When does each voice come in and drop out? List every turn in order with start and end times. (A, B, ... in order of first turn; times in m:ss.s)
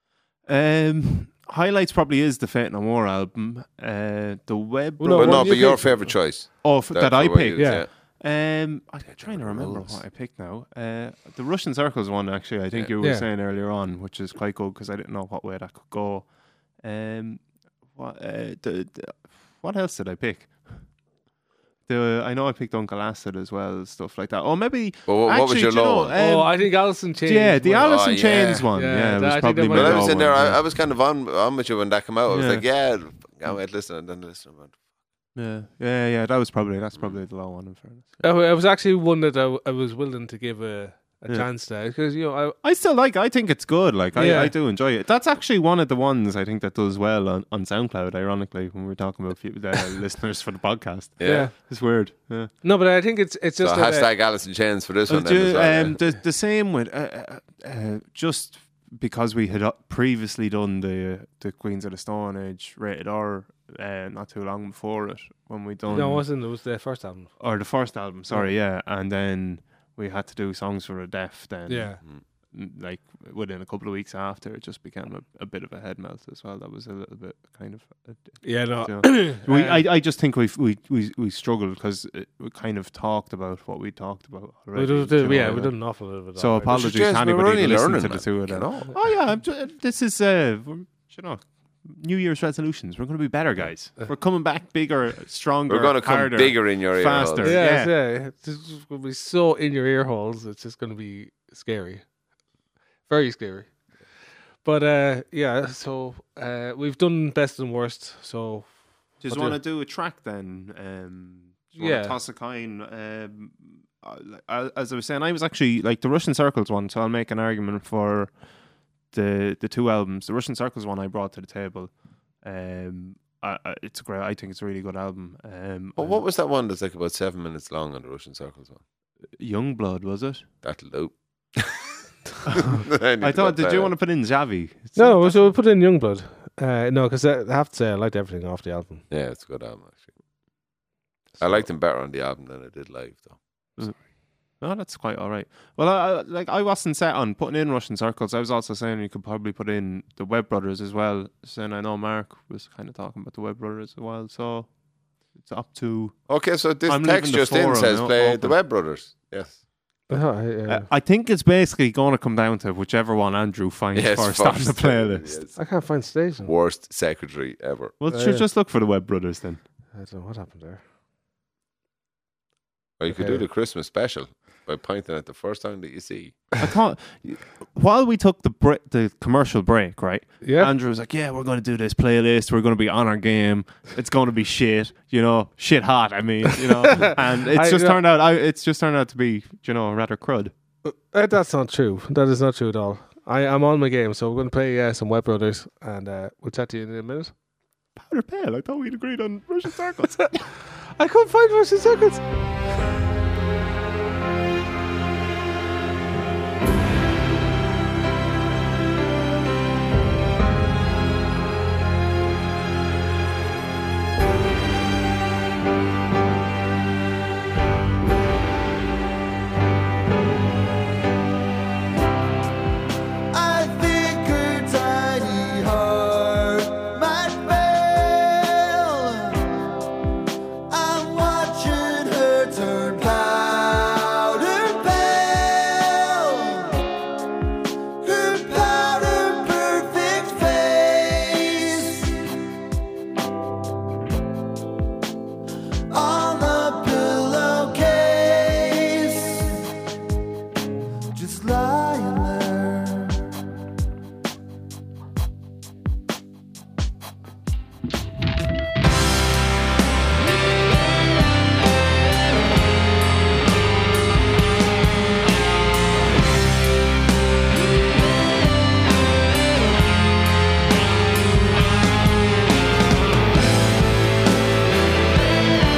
0:00.5-0:16.3 A
0:05.0-0:06.1 B
0:05.1-0:07.9 C
0:07.6-0:07.8 B
0:09.1-0:10.0 C
0:13.0-0:13.3 B
0:16.8-0:20.8 A
0:21.9-0:30.6 A
0:25.1-0:26.1 C
0:26.2-0:30.2 B
0:27.8-0:28.7 C
0:29.7-0:34.8 C
0:32.3-0:32.6 A
0:35.3-0:38.2 A
0:38.2-0:42.6 B
0:42.6-0:52.5 A
0:44.1-0:44.5 B
0:51.2-0:51.5 C
0:51.2-0:51.5 B
0:52.6-0:54.1 B
0:53.6-0:56.0 C
0:55.1-1:06.2 A
1:05.8-1:06.1 C
1:05.9-1:07.3 B
1:07.4-1:25.7 A
1:11.7-1:12.0 B
1:18.4-1:19.9 B
1:24.7-1:26.7 B
1:26.4-1:37.9 A
1:26.6-1:29.1 C
1:35.7-1:37.6 C
1:37.4-1:42.0 B
1:43.1-1:43.7 B
1:44.6-1:48.7 B
1:49.2-1:58.3 A
1:49.3-1:49.6 B
1:51.8-1:52.2 B
1:59.1-2:01.9 A
2:02.4-2:06.2 A
2:06.0-2:08.8 C
2:09.4-2:10.4 A
2:10.6-2:11.8 C
2:12.5-2:15.5 A
2:12.6-2:13.9 C
2:15.0-2:19.0 B
2:19.1-2:20.1 C
2:21.4-2:23.4 C
2:24.6-2:34.7 A
2:35.4-2:36.3 A
2:36.3-2:39.6 C
2:36.8-2:38.6 A
2:40.1-2:40.9 B
2:40.7-2:45.4 A
2:43.9-2:45.6 C
2:45.6-2:46.5 B
2:46.4-2:47.9 C
2:48.0-2:49.6 A
2:48.1-2:48.4 B
2:49.9-2:50.8 B
2:53.0-2:56.5 C
2:53.1-2:53.4 B
2:56.6-3:10.5 A
3:00.4-3:00.7 B
3:06.6-3:08.0 B
3:10.8-3:17.3 B
3:18.0-3:20.5 A
3:21.0-3:22.2 B
3:43.3-3:49.8 D
3:50.7-3:57.0 D
3:58.0-4:02.4 D
4:05.9-4:09.7 D
4:11.1-4:13.5 D